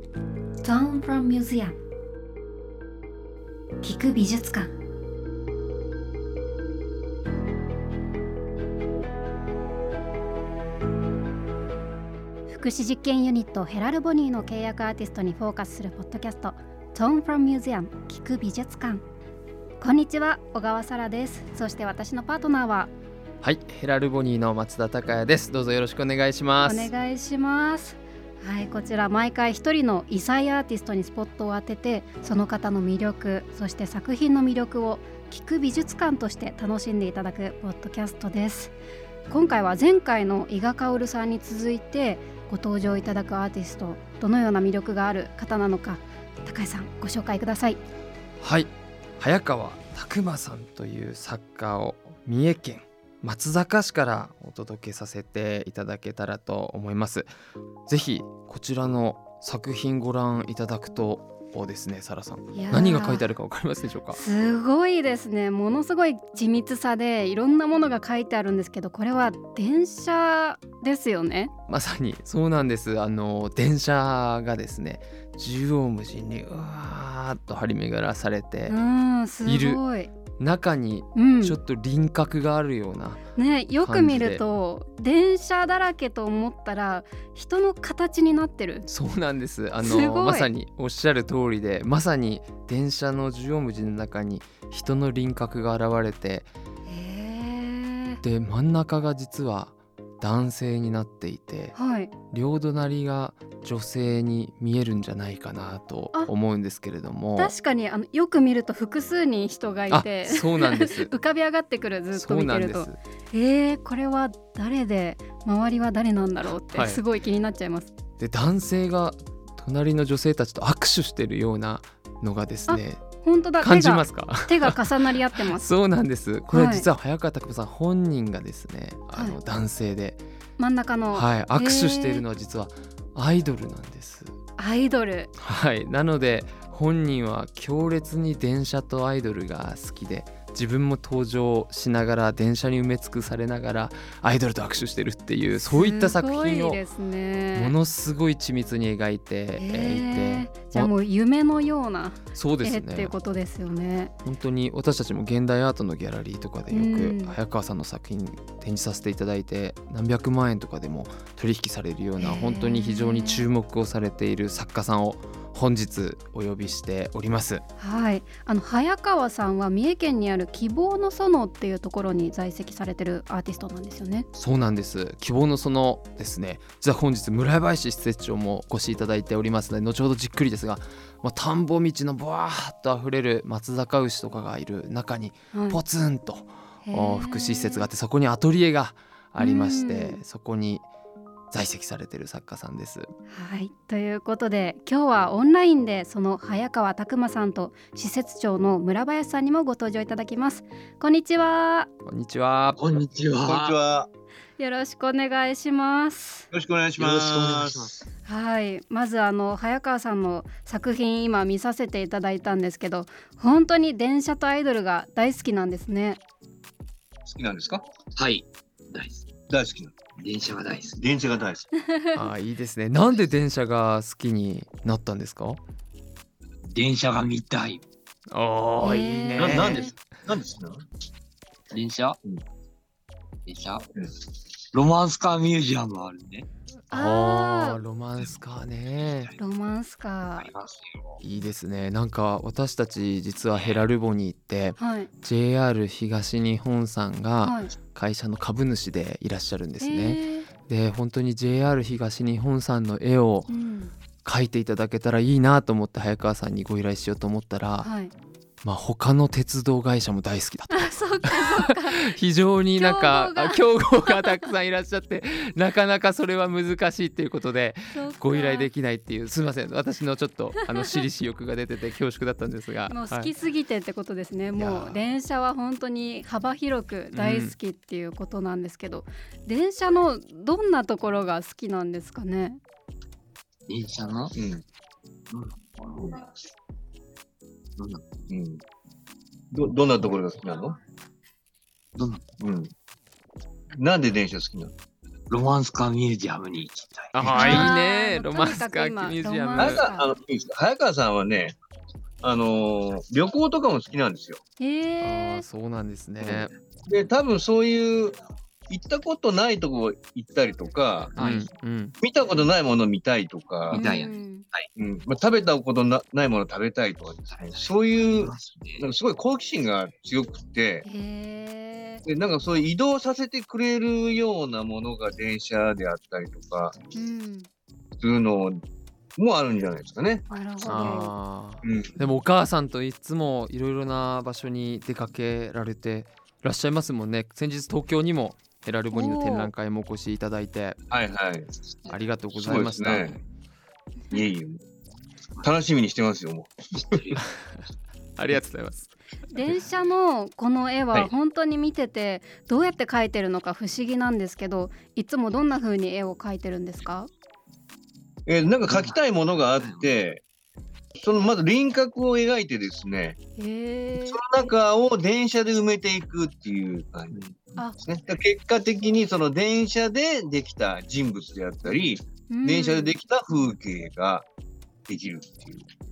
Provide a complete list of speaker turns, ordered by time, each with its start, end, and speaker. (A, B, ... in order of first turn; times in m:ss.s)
0:00.6-0:01.8 A
0:03.8-0:04.7 A
0:12.5-0:19.0 A
0:19.8-0:22.9 A
0:23.4-0:26.9 B
0:26.6-0:38.7 A
0:39.3-0:47.8 A
0:48.4-0:57.3 B
0:57.9-1:04.2 B
1:02.5-1:03.2 A
1:04.1-1:11.5 A
1:11.7-1:18.8 B
1:18.7-1:20.1 A
1:19.4-1:19.8 B
1:20.4-1:23.2 B
1:21.2-1:21.6 A
1:23.4-1:28.8 A
1:23.8-1:24.4 B
1:28.8-1:36.5 B
1:29.8-1:30.5 A
1:36.9-1:38.2 A
1:38.2-1:41.7 B
1:41.7-1:42.1 A
1:42.3-1:47.5 B
1:47.4-1:57.9 A
1:49.9-1:51.1 B
1:52.1-1:53.0 B
1:56.7-1:57.0 B
1:58.2-2:03.0 B
2:02.7-2:05.7 A
2:03.6-2:10.2 B
2:06.5-2:06.9 A
2:10.6-2:12.2 A
2:11.1-2:14.3 B
2:14.6-2:15.3 A
2:15.4-2:26.8 B
2:25.6-2:27.7 A
2:27.5-2:30.9 B
2:29.6-2:34.1 A
2:32.3-2:33.1 B
2:34.2-2:47.6 B
2:36.7-2:37.4 A
2:42.2-2:43.5 A
2:47.8-2:54.2 A
2:54.4-3:10.8 B
3:05.5-3:05.8 A
3:06.8-3:07.9 A
3:09.4-3:10.2 A
3:11.5-3:13.1 B
3:13.3-3:21.9 A
3:22.0-3:23.0 B
3:22.7-3:23.8 C
3:23.4-3:24.1 D
3:24.6-3:26.5 A
3:26.5-3:27.9 D
3:27.0-3:28.0 C
3:28.2-3:36.2 A
3:37.2-3:37.8 D
3:38.2-3:39.2 C
3:39.5-3:39.9 D
3:40.2-3:41.0 C
3:41.0-3:41.7 D
3:42.1-3:45.6 B
3:46.7-3:47.8 C
3:48.3-3:49.9 B
3:48.8-3:49.9 A
3:49.4-3:50.8 D
3:51.7-3:52.2 C
3:53.4-3:53.9 C
3:54.7-3:56.4 C
3:56.9-3:59.3 B
3:56.9-3:57.8 A
3:59.0-3:59.3 C
3:59.4-4:00.5 A
4:00.4-4:01.2 C
4:01.2-4:13.5 B
4:03.5-4:03.8 C
4:04.8-4:05.1 A
4:07.4-4:07.7 A
4:09.8-4:10.5 A
4:13.5-4:13.9 A
4:14.2-4:17.9 B
4:17.8-4:18.1 A
4:18.6-4:33.3 B
4:20.7-4:22.1 A
4:22.8-4:24.4 A
4:27.9-4:28.7 A
4:32.9-4:42.6 A
4:34.5-4:35.0 B
4:37.1-4:37.5 B
4:43.7-4:44.4 C
4:44.4-4:44.6 D
4:45.3-4:46.2 C
4:47.8-4:48.0 C
4:48.3-4:48.6 D
4:49.5-4:50.8 D
4:52.0-4:52.2 C
4:52.4-4:52.7 D
4:53.7-4:54.7 D
4:55.3-4:57.7 C
4:57.1-4:59.9 B
4:57.3-5:00.1 A
4:59.6-5:01.6 D
5:02.2-5:04.4 D
5:04.6-5:05.4 A
5:05.0-5:06.5 B
5:06.9-5:08.2 D
5:08.7-5:11.2 D
5:11.2-5:11.5 C
5:11.2-5:12.0 B
5:12.0-5:13.8 D
5:13.7-5:14.4 A
5:13.7-5:14.7 C
5:14.8-5:20.8 D
5:17.4-5:18.8 C
5:20.8-5:22.0 A
5:22.0-5:26.7 D
5:26.9-5:27.5 A
5:28.0-5:28.6 D
5:29.2-5:30.9 D
5:30.3-5:31.1 A
5:30.6-5:40.8 B
5:31.6-5:32.0 D
5:38.9-5:39.5 A
5:40.9-5:41.5 D
5:41.9-5:43.2 B
5:42.3-5:43.2 D
5:44.1-5:44.6 D
5:45.4-5:47.0 D
5:46.8-5:47.2 C
5:48.2-5:48.9 B
5:49.3-5:57.1 A
5:58.2-6:00.2 D
5:58.7-5:59.0 C
5:59.6-5:59.9 C
6:00.9-6:03.2 D
6:03.4-6:04.2 A
6:04.0-6:07.2 D
6:07.8-6:14.2 D
6:12.3-6:13.0 A
6:14.9-6:15.6 D